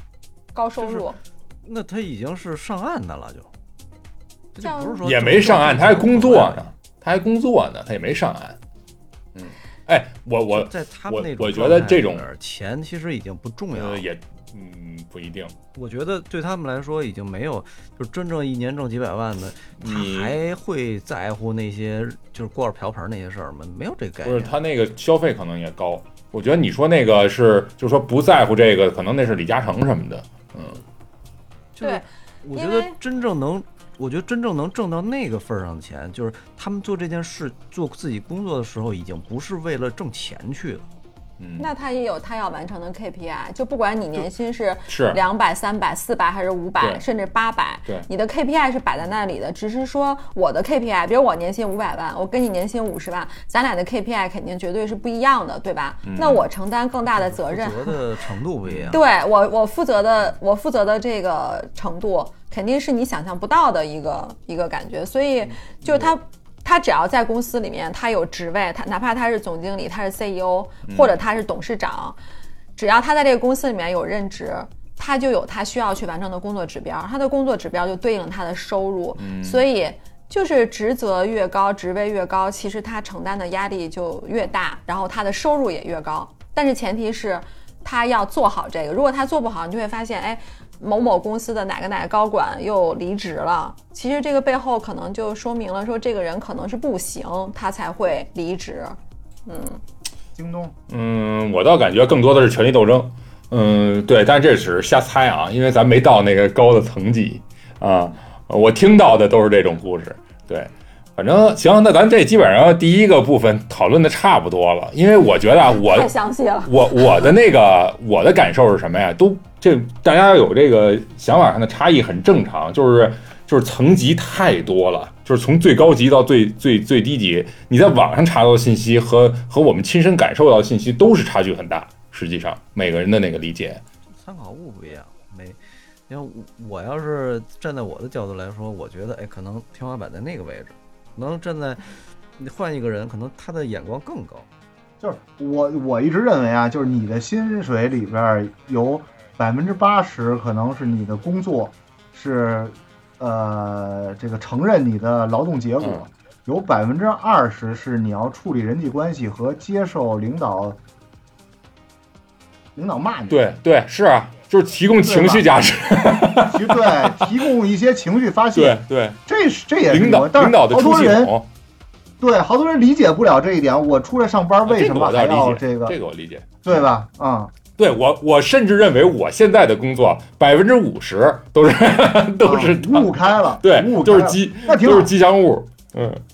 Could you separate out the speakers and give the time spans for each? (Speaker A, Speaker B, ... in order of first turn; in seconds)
Speaker A: 0.5-1.2, 4.6-5.0, 31.8-33.0, 41.6-58.0, 58.9-72.2, 72.8-99.8, 115.8-116.9
Speaker B: 1.6-3.5, 4.5-6.7, 10.5-14.1, 15.7-24.6, 31.8-40.8, 57.1-59.0, 134.1-144.5
Speaker C: 5.0-8.6, 9.3-12.3, 13.7-15.5, 19.8-20.4, 24.2-30.8, 41.4-41.7, 44.9-45.2, 56.0-56.5, 58.6-59.0, 70.9-71.1, 79.2-79.6, 100.9-116.1, 116.6-133.8, 155.8-156.1, 163.3-167.2, 168.5-169.2, 169.9-171.5, 174.6-176.8, 177.8-186.2
Speaker D: 100.3-100.7, 145.0-160.8, 162.8-163.4, 165.0-165.5, 166.4-171.3, 172.2-176.0, 176.6-177.5, 182.4-185.1